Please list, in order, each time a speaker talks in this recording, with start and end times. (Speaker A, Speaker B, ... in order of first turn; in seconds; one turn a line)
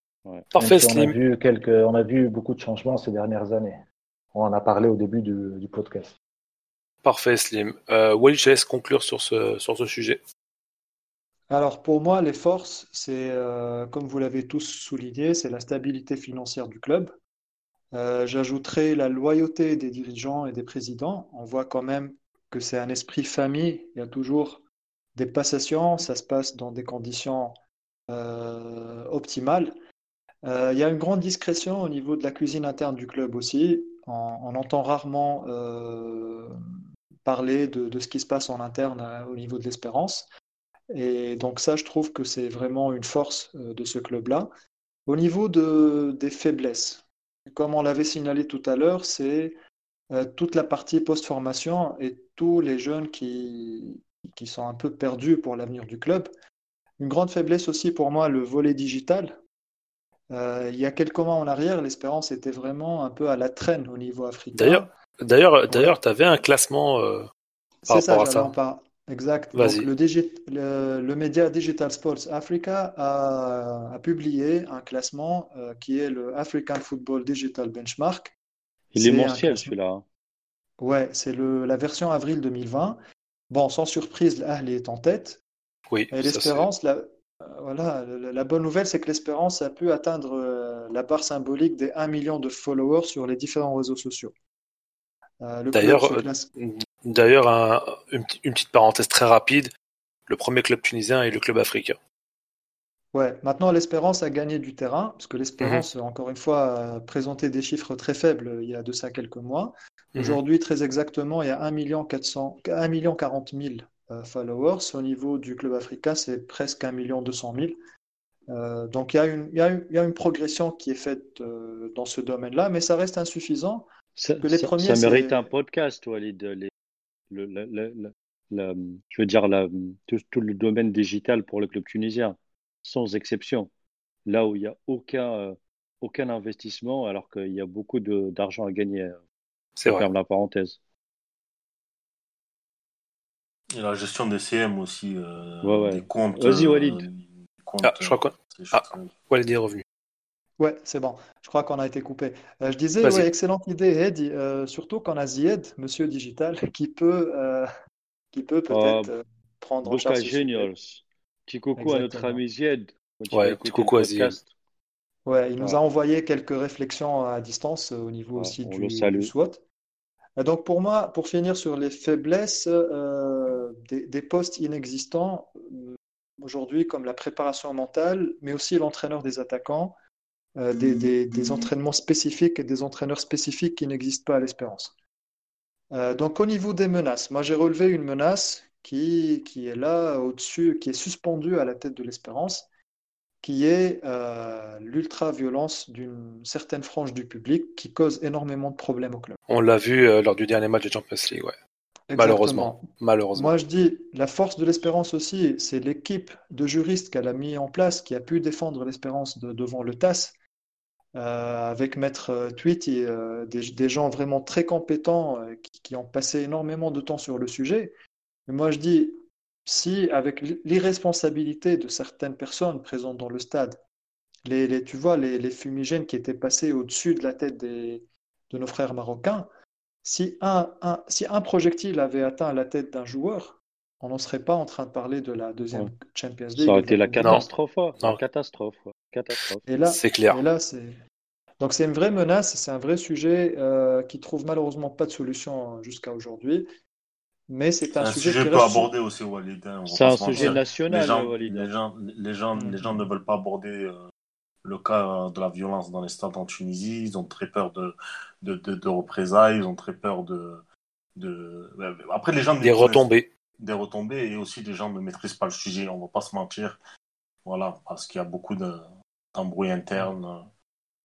Speaker A: 0.5-1.1
Speaker B: 0.5-3.8
Speaker B: 4.3-6.1
Speaker A: 7.0-10.2
Speaker C: 11.5-17.1
Speaker C: 17.9-24.6
Speaker C: 25.1-27.5
Speaker C: 28.1-29.7
Speaker C: 30.4-36.5
Speaker C: 37.2-40.3
Speaker C: 40.9-44.5
Speaker C: 45.1-49.5
Speaker C: 50.1-56.3
Speaker C: 57.0-59.4
Speaker C: 60.3-64.9
Speaker A: 64.5-67.3
Speaker C: 65.7-65.9
Speaker C: 67.8-78.3
Speaker A: 67.9-68.5
Speaker A: 69.5-69.9
Speaker D: 78.9-80.0
Speaker C: 78.9-79.7
Speaker C: 80.8-83.0
Speaker C: 83.5-85.4
Speaker A: 85.9-86.7
Speaker C: 86.1-94.3
Speaker C: 95.4-96.5
Speaker A: 95.7-99.7
Speaker A: 100.3-102.0
Speaker C: 103.1-117.7
Speaker A: 105.6-105.8
Speaker A: 110.1-110.4
Speaker C: 118.5-123.9
Speaker D: 124.2-126.7
Speaker C: 124.4-125.5
Speaker D: 127.3-133.7
Speaker D: 134.2-139.2
Speaker A: 139.8-140.1
Speaker D: 139.8-140.8
Speaker E: 143.7-149.1
Speaker D: 145.6-147.0
Speaker A: 147.8-149.8
Speaker C: 150.6-157.7
Speaker C: 158.3-160.7
Speaker D: 158.7-159.1
Speaker D: 159.8-164.5
Speaker C: 161.8-162.4
Speaker A: 163.3-164.4
Speaker C: 165.2-169.6
Speaker D: 168.3-169.3
Speaker C: 170.4-179.9
Speaker C: 180.6-184.9
Speaker C: 185.9-192.7
Speaker C: 193.4-199.4
Speaker A: 199.5-201.5
Speaker C: 202.1-210.3
Speaker A: 202.1-203.5
Speaker C: 211.2-217.9
Speaker C: 218.5-223.8
Speaker C: 224.4-229.5
Speaker C: 230.0-237.5
Speaker D: 236.6-239.6
Speaker C: 239.7-240.9
Speaker A: 239.8-240.4
Speaker C: 241.6-246.7
Speaker C: 247.5-248.9
Speaker E: 247.9-254.0
Speaker D: 249.9-251.7
Speaker C: 252.5-253.1
Speaker E: 254.6-260.6
Speaker E: 261.2-266.8
Speaker A: 262.6-263.3
Speaker E: 267.4-270.5